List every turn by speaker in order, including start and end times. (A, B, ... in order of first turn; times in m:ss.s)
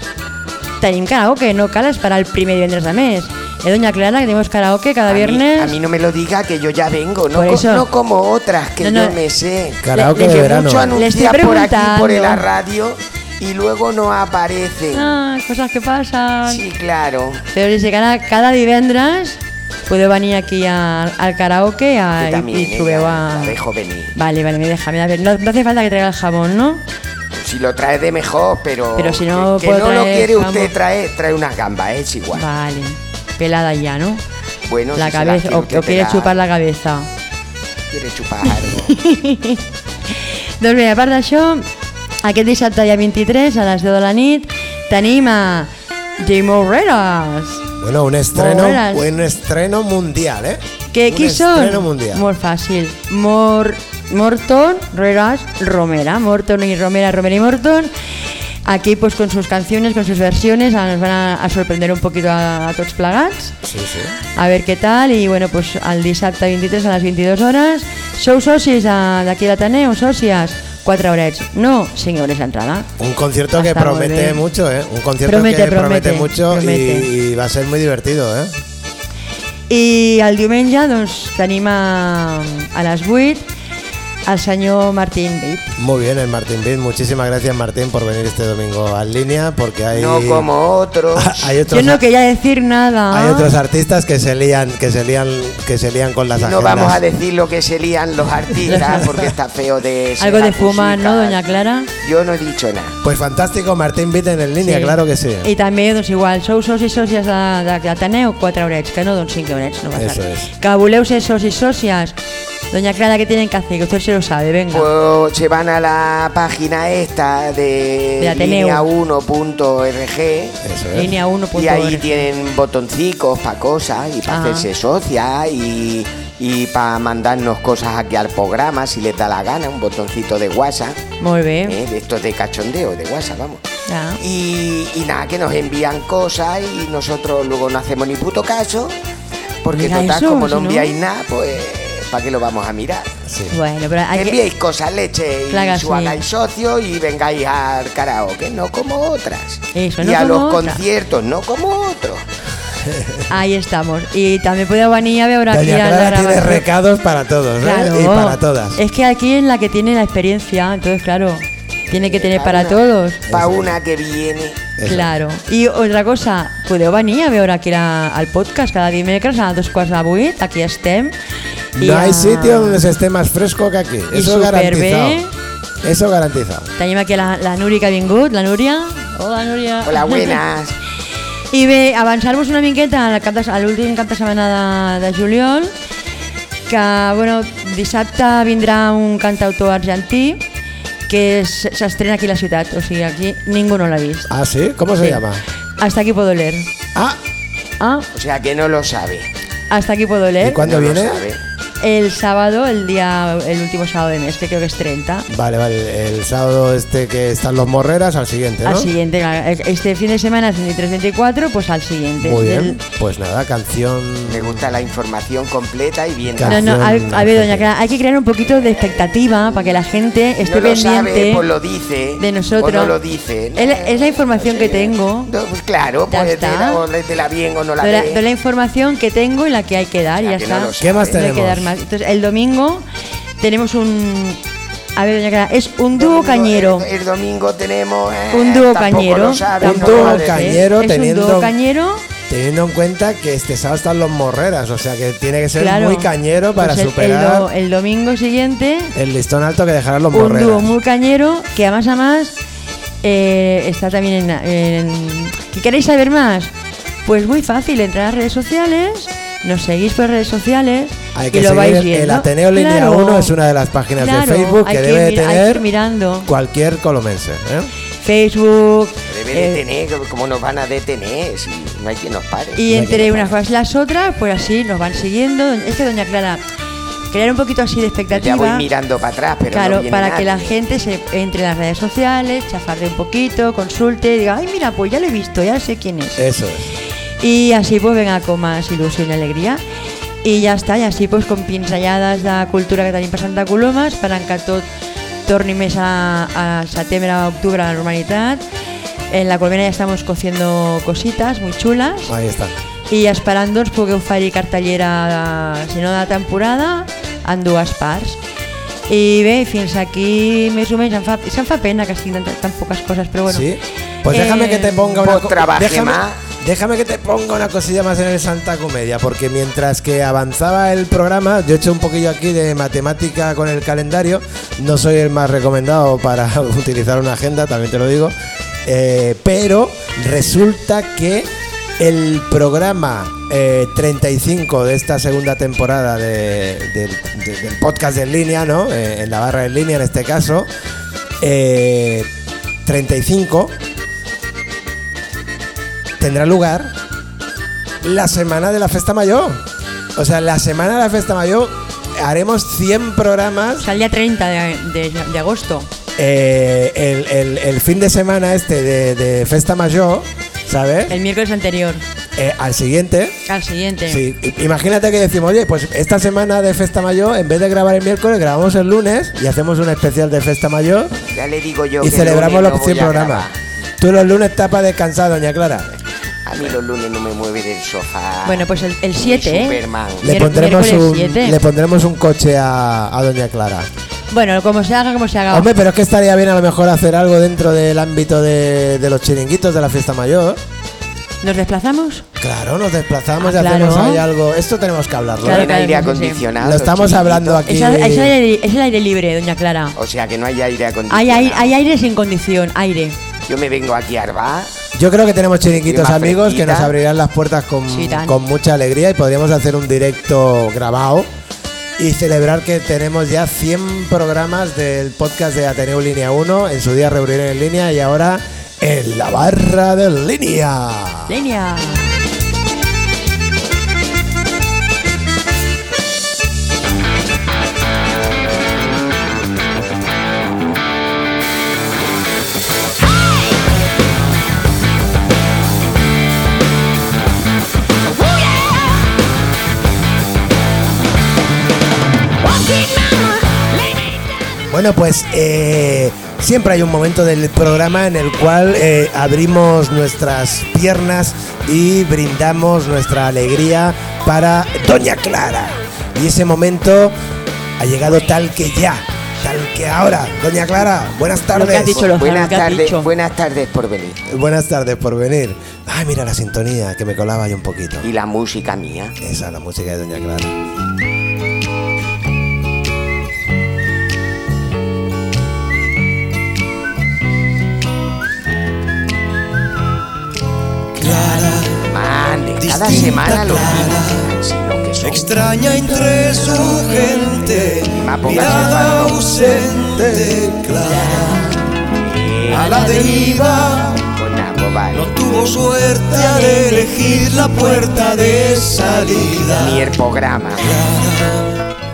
0:00.8-0:05.8 A
0:05.1-0:15.2 B
0:07.3-0:07.9 A
0:08.8-0:09.2 A
0:09.8-0:10.9 C
0:09.9-0:12.4 A
0:14.9-0:16.6 A
0:16.4-0:17.4 B
0:17.5-0:23.6 A
0:22.2-0:24.1 B
0:24.1-0:26.8 A
0:27.3-0:32.4 B
0:29.0-0:30.7 A
0:32.3-0:34.2 A
0:34.7-0:36.4 B
0:34.9-0:37.1 A
0:37.9-0:38.9 B
0:38.5-0:39.6 A
0:40.6-0:41.7 A
0:42.2-0:47.6 A
0:47.8-0:52.2 C
0:48.3-0:49.1 A
0:50.9-0:57.9 A
0:58.6-1:03.6 A
1:03.6-1:04.1 C
1:04.4-1:12.9 A
1:13.0-1:18.5 C
1:13.5-1:14.4 A
1:15.2-1:17.1 A
1:19.7-1:23.5 A
1:24.2-1:25.8 A
1:25.8-1:30.5 C
1:29.9-1:31.5 B
1:31.1-1:32.0 C
1:31.7-1:33.5 A
1:33.1-1:37.0 C
1:36.3-1:43.0 B
1:38.7-1:39.0 A
1:40.2-1:41.9 A
1:43.0-1:45.5 C
1:44.6-1:52.2 A
1:50.0-1:50.5 C
1:52.7-1:54.9 A
1:54.7-2:00.6 B
1:58.2-1:58.8 A
2:00.6-2:01.1 C
2:00.9-2:02.2 A
2:01.5-2:11.0 B
2:04.3-2:04.7 A
2:11.2-2:11.8 A
2:11.6-2:13.6 B
2:13.9-2:14.2 A
2:14.2-2:19.0 B
2:19.6-2:23.2 B
2:19.7-2:21.0 A
2:23.3-2:23.6 C
2:23.5-2:24.4 A
2:24.1-2:32.2 B
2:25.5-2:26.2 A
2:29.7-2:30.8 A
2:32.8-2:33.2 C
2:33.3-2:36.7 A
2:35.5-2:38.8 C
2:37.6-2:43.2 A
2:41.9-2:44.7 B
2:43.3-2:43.7 C
2:44.8-2:45.1 C
2:44.8-2:51.1 A
2:51.8-2:52.8 A
2:51.8-2:55.2 C
2:54.1-2:55.3 A
2:55.8-2:56.7 C
2:56.8-3:00.4 A
2:59.8-3:00.8 B
3:01.5-3:05.7 A
3:06.7-3:10.4 A
3:11.1-3:14.3 A
3:14.3-3:15.4 C
3:15.8-3:16.7 A
3:17.8-3:18.1 A
3:18.1-3:19.3 B
3:19.7-3:20.6 A
3:20.4-3:21.2 C
3:20.6-3:21.4 B
3:21.8-3:25.3 A
3:25.3-3:28.9 C
3:28.6-3:32.8 A
3:32.2-3:34.7 C
3:34.2-3:36.8 B
3:36.3-3:37.7 C
3:36.4-3:41.4 A
3:40.4-3:48.2 B
3:42.2-3:43.0 A
3:43.5-3:45.3 A
3:46.1-3:46.8 A
3:47.8-3:52.8 A
3:50.2-3:51.2 B
3:50.8-3:51.7 C
3:53.4-3:54.4 A
3:55.0-3:56.9 A
3:56.0-4:00.6 B
3:58.3-4:02.0 A
3:59.6-4:01.5 C
4:02.3-4:07.5 C
4:05.6-4:09.0 A
4:09.0-4:10.7 C
4:10.1-4:12.3 A
4:13.0-4:16.5 A
4:17.0-4:23.3 A
4:21.1-4:25.6 C
4:24.0-4:26.3 A
4:26.2-4:27.7 C
4:28.0-4:29.6 A
4:29.1-4:32.6 B
4:32.6-4:36.4 A
4:32.7-4:33.2 C
4:37.1-4:38.6 A
4:38.1-4:40.5 B
4:39.5-4:46.2 A
4:46.2-4:46.7 C
4:47.2-4:49.6 A
4:50.2-4:54.6 A
4:55.2-4:58.4 A
4:59.1-5:02.1 A
5:02.1-5:02.5 C
5:02.9-5:08.2 A
5:08.9-5:13.5 A
5:13.3-5:28.1 C
5:14.0-5:15.0 A
5:15.0-5:16.2 B
5:28.6-5:40.5 C
5:41.2-5:42.1 C
5:42.6-5:43.5 C
5:46.0-5:46.7 C
5:47.8-5:49.4 C
5:50.0-5:53.7 C
5:53.6-5:55.7 A
5:56.0-6:01.0 C
6:00.9-6:01.8 A
6:02.2-6:03.2 C
6:03.2-6:04.0 A
6:03.9-6:11.0 C
6:11.1-6:13.3 B
6:11.8-6:13.3 C
6:13.8-6:15.8 C
6:16.2-6:18.5 B
6:18.2-6:21.4 A
6:19.0-6:20.1 B
6:20.0-6:23.7 C
6:24.1-6:25.5 A
6:25.3-6:30.4 C
6:31.2-6:32.0 A
6:32.2-6:35.5 C
6:33.2-6:34.0 A
6:35.2-6:36.2 A
6:35.2-6:37.4 B
6:36.4-6:38.1 C
6:37.5-6:39.8 A
6:39.8-6:41.5 B
6:40.9-6:43.0 A
6:43.3-6:44.5 B
6:44.7-6:51.1 C
6:45.6-6:46.7 B
6:47.7-6:48.2 A
6:51.8-7:01.1 C
7:01.1-7:01.8 A
7:22.5-7:22.9 B
7:24.5-7:36.9 C
7:37.6-7:41.9 C
7:41.3-7:42.9 A
7:41.8-7:44.0 B
7:44.1-7:47.9 C
7:47.8-7:49.0 B
7:49.0-7:50.3 C
8:00.8-8:01.6 D
8:01.6-8:05.2 B
8:02.4-8:03.9 D
8:04.8-8:11.4 D
8:07.7-8:09.1 B
8:11.8-8:12.7 B
8:12.3-8:13.8 D
8:13.9-8:14.9 B
8:14.7-8:19.7 D
8:19.3-8:20.5 B
8:20.6-8:21.1 D